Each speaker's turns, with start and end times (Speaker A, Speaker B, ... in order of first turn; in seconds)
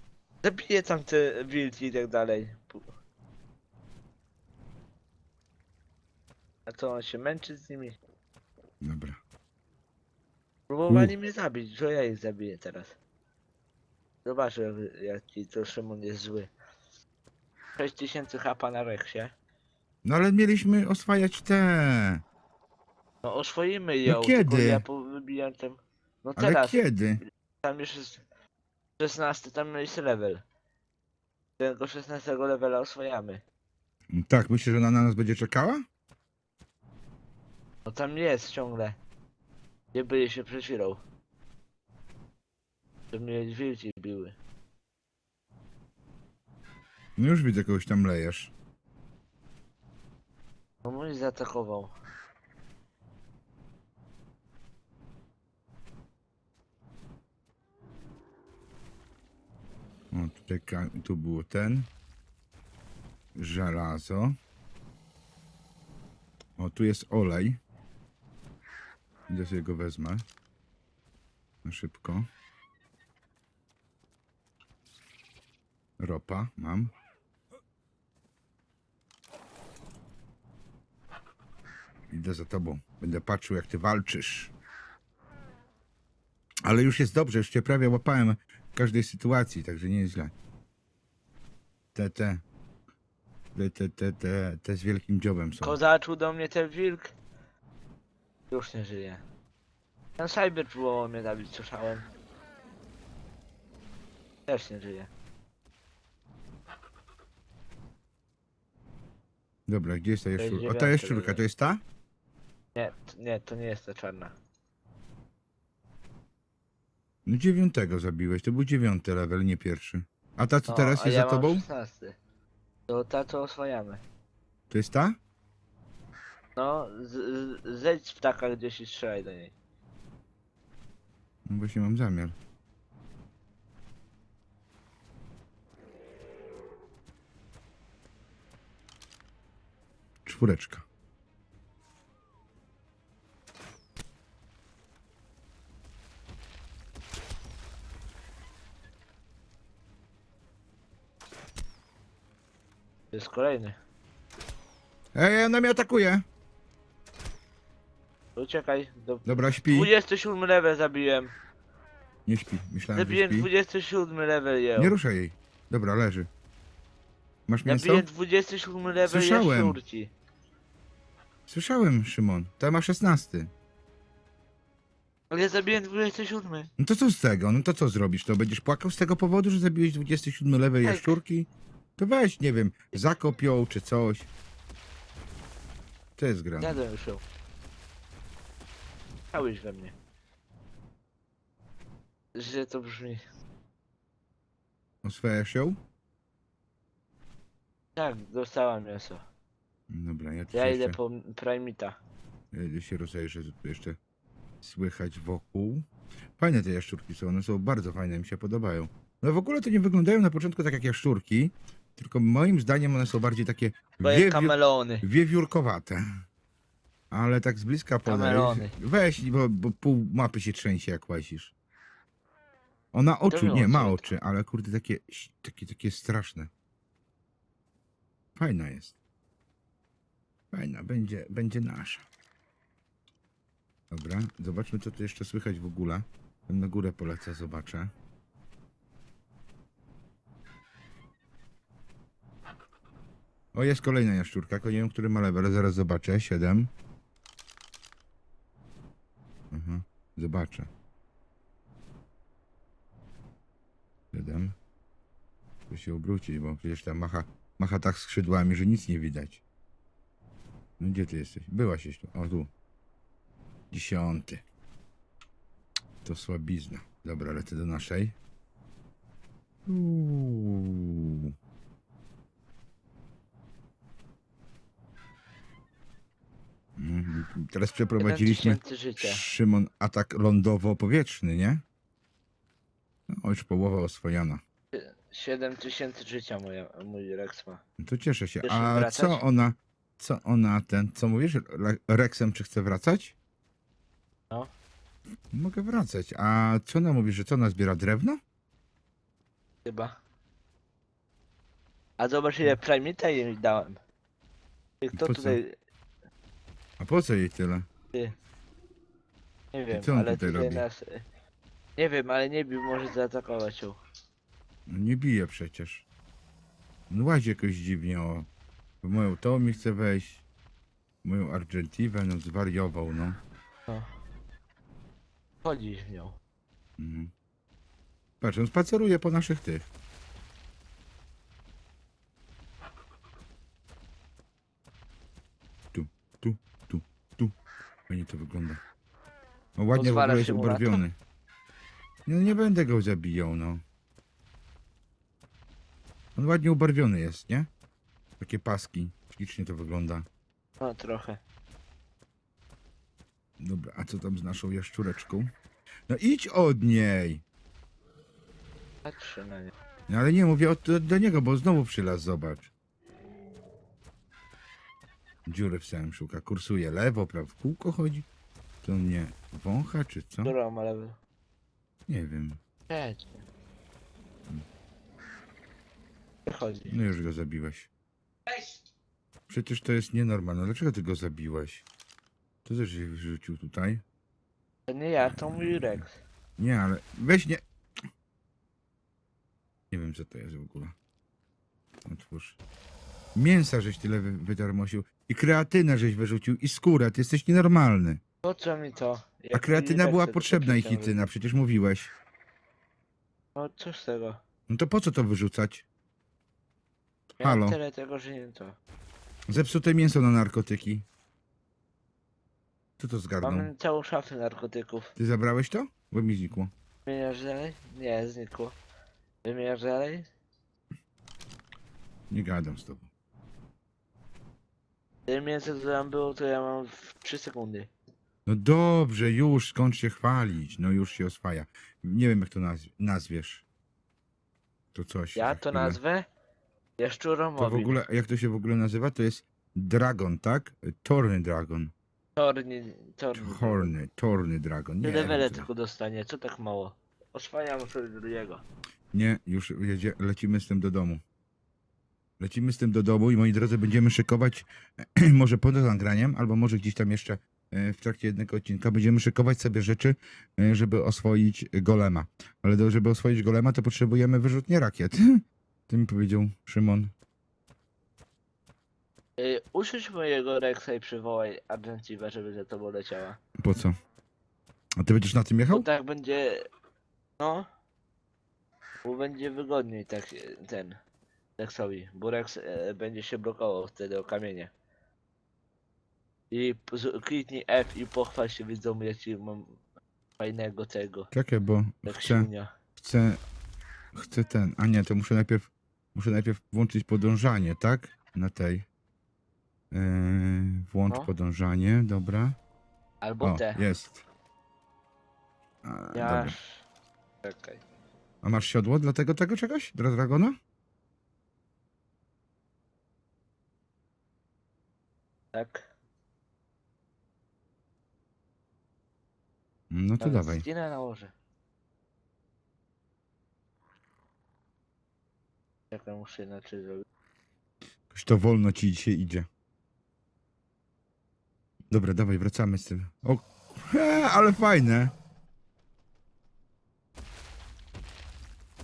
Speaker A: 0.4-2.9, 6.7-8.0, 10.7-12.9, 14.2-16.5, 17.8-19.3, 23.2-26.8, 27.6-28.2, 29.0-30.4, 31.6-33.4, 37.9-39.0, 39.9-41.0, 43.1-44.3, 50.8-51.9, 95.6-97.1, 98.5-99.2, 100.2-102.0, 104.5-105.1, 110.4-111.4, 112.7-114.3, 120.7-122.2, 122.9-124.0, 126.5-129.5, 153.1-153.8, 158.3-161.3, 162.9-164.9, 167.7-170.1, 175.3-176.7, 180.8-181.2, 186.6-187.2, 189.3-189.9, 192.3-193.2, 197.9-199.2, 200.5-202.0, 214.0-215.0, 218.1-218.7, 223.3-224.0, 278.0-279.2, 284.7-287.6, 288.4-289.2, 299.6-300.0, 302.0-303.8, 304.8-305.6, 309.5-311.0, 311.8-313.8, 323.7-323.9, 325.4-326.2, 339.8-340.8, 350.6-351.2, 358.8-359.5, 370.2-371.0, 372.7-373.2, 376.2-376.8, 384.7-385.9, 398.2-401.1, 403.3-404.2, 407.2-408.6, 413.2-414.9, 416.9-418.6, 419.2-420.1, 425.1-427.7, 435.1-436.1, 436.8-437.8, 442.1-443.7, 444.8-448.4, 469.2-473.2, 475.5-476.4, 477.2-477.5, 478.8-480.8, 481.4-484.5, 486.3-489.6, 490.2-491.1, 491.9-492.5, 503.0-503.6, 505.9-506.6, 507.2-507.6, 515.3-515.6, 520.0-521.1, 525.7-526.8
Speaker B: 8.8-9.2, 10.9-11.1, 20.0-22.2, 24.1-24.8, 26.4-27.2, 34.1-35.8, 47.2-48.5, 60.1-61.9, 63.4-64.4, 66.6-67.6, 69.3-70.2, 71.6-72.3, 76.0-76.9, 82.1-84.5, 86.6-90.3, 91.9-92.4, 93.5-95.8, 109.7-111.8, 117.2-121.6, 124.7-125.2, 131.4-132.3, 140.2-140.8, 155.1-156.2, 159.2-159.9, 162.3-163.5, 164.8-166.3, 167.5-168.1, 169.1-169.8, 171.5-173.5, 176.8-184.3, 186.2-186.8, 195.0-195.8, 199.9-201.0, 202.5-204.0, 204.6-205.9, 206.4-216.2, 217.1-221.5, 222.9-226.5, 228.3-228.9, 230.5-232.0, 233.9-237.9, 243.5-246.7, 249.5-250.7, 254.1-254.5, 255.7-259.4, 260.8-262.5, 263.7-264.4, 266.0-268.1, 269.6-271.3, 276.8-281.6, 283.1-284.4, 287.8-293.1, 295.3-298.2, 304.9-305.4, 306.8-307.7, 309.7-310.6, 314.7-315.9, 316.9-318.3, 318.8-320.2, 321.0-323.2, 326.8-327.1, 328.2-329.7, 335.7-337.3, 337.9-338.6, 339.6-340.9, 342.1-343.6, 346.1-347.5, 348.2-350.1, 353.4-355.3, 355.9-357.2, 359.9-362.5, 365.3-368.1, 368.6-370.3, 371.9-372.4, 376.7-377.7, 379.3-381.6, 382.4-383.8, 386.4-387.4, 389.7-390.7, 391.9-392.4, 393.1-398.0, 399.3-401.9, 404.5-405.6, 407.1-407.6, 409.3-410.9, 412.8-413.5, 414.9-416.5, 422.1-422.9, 428.2-433.4, 434.7-435.8, 437.4-441.7, 443.1-445.5, 448.9-451.0, 452.2-466.9, 473.4-473.8, 474.8-475.7, 491.1-493.2, 493.9-498.6, 499.7-502.4, 503.2-504.0, 505.6-506.4, 508.2-510.4, 519.7-520.4, 527.9-529.3, 531.7-534.9